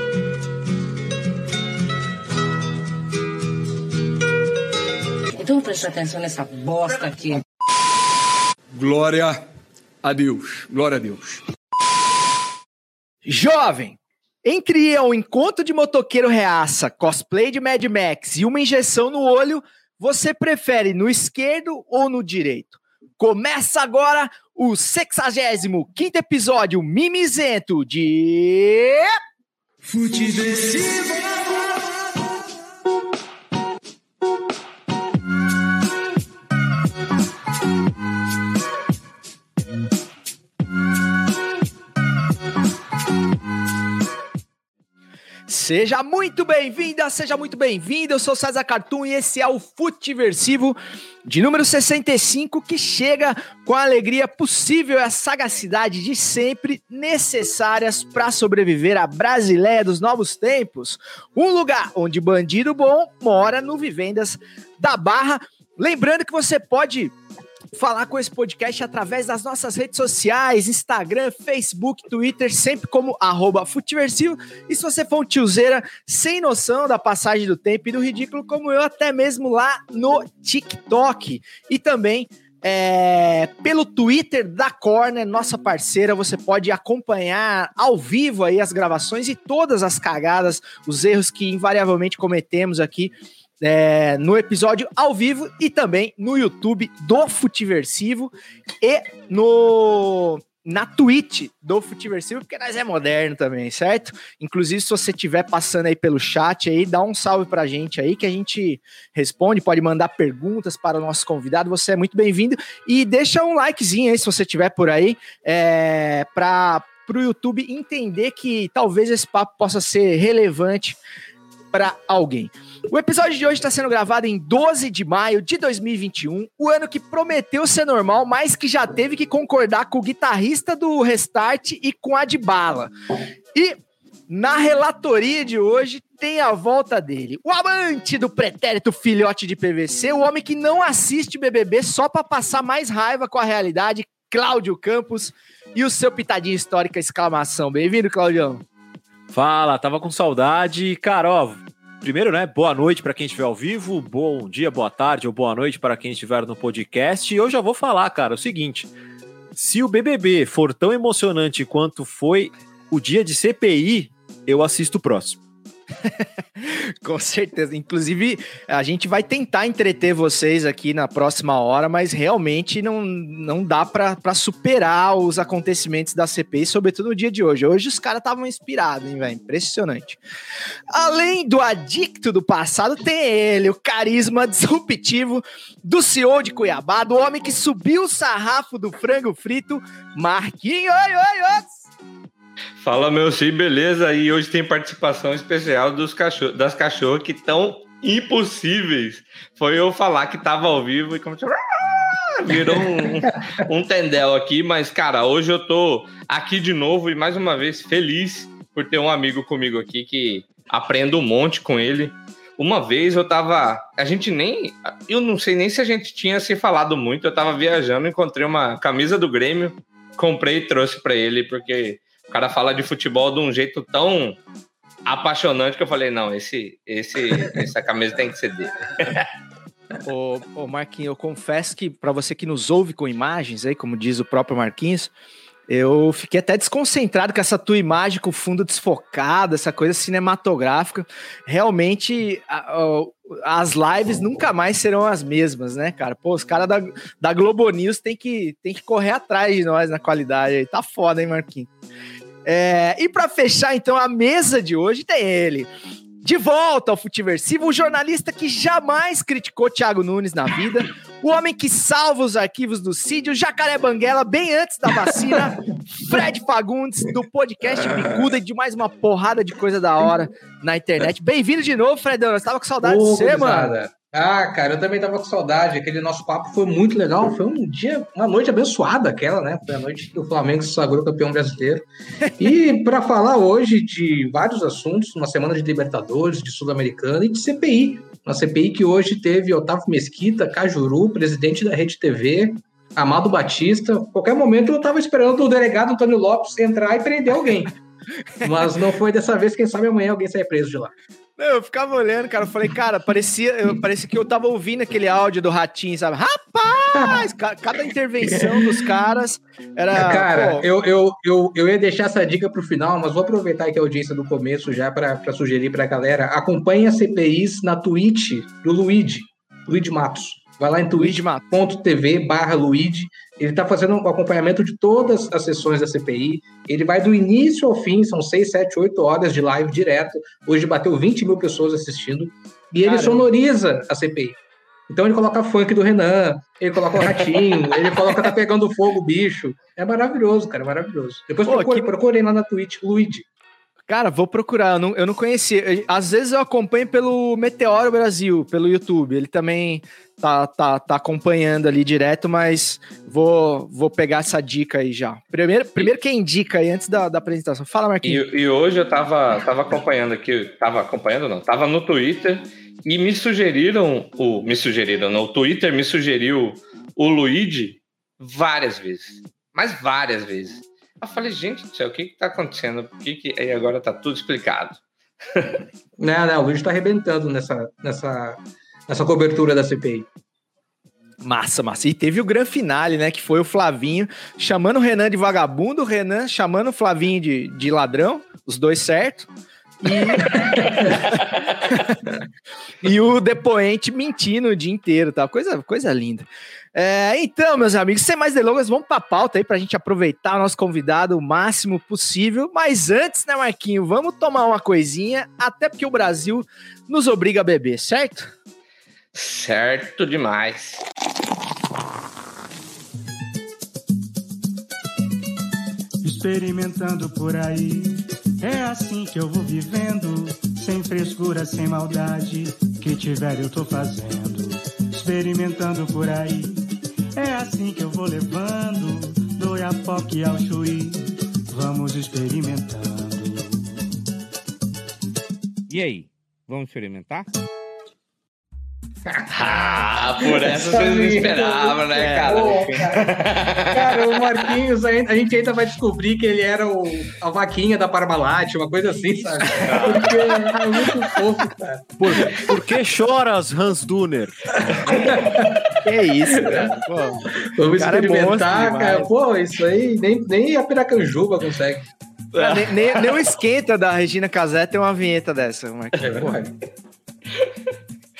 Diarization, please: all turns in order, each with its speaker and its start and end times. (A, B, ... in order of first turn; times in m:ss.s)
0:05.4-0:07.4 A
0:08.7-0:09.3 B
0:10.0-0:11.4 B
0:13.2-0:29.1 C
0:29.9-0:31.2 B
0:45.5-1:07.1 C
1:07.7-2:01.0 C
2:01.7-2:12.9 C
2:14.3-2:28.6 C
2:29.3-2:38.9 D
2:39.5-2:45.4 D
2:46.0-3:00.2 C
3:00.9-3:11.8 C
3:12.8-3:44.4 E
3:23.2-3:23.5 F
3:45.0-3:49.3 E
3:50.0-3:55.1 C
3:55.7-4:11.7 C
4:12.4-4:15.7 C
4:16.2-4:33.7 C
4:32.8-4:41.8 F
4:42.4-4:57.8 F
4:58.4-5:00.9 F
5:01.4-5:10.7 C
5:06.9-5:07.3 F
5:08.3-5:08.8 F
5:09.9-5:34.4 F
5:21.0-5:21.5 C
5:32.8-5:33.3 C
5:34.9-5:43.2 F
5:41.5-5:41.9 C
5:43.9-5:58.2 C
5:58.0-6:14.8 E
6:15.3-6:15.6 E
6:16.0-6:20.1 F
6:21.2-6:29.3 C
6:29.8-6:32.0 C
6:32.8-6:48.3 C
6:49.1-6:50.8 E
6:56.0-7:06.6 G
7:07.2-7:13.8 G
7:15.7-7:17.3 E
7:19.1-7:19.6 F
7:19.3-7:24.4 E
7:20.2-7:23.1 F
7:21.9-7:22.8 C
7:23.7-7:32.5 F
7:29.5-7:30.9 C
7:29.6-7:30.2 D
7:32.0-7:34.9 D
7:32.2-7:32.4 C
7:34.7-7:35.7 F
7:35.8-7:39.1 C
7:36.4-7:36.8 F
7:37.3-7:41.8 F
7:42.3-7:46.3 C
7:42.4-7:43.0 E
7:46.0-7:46.6 F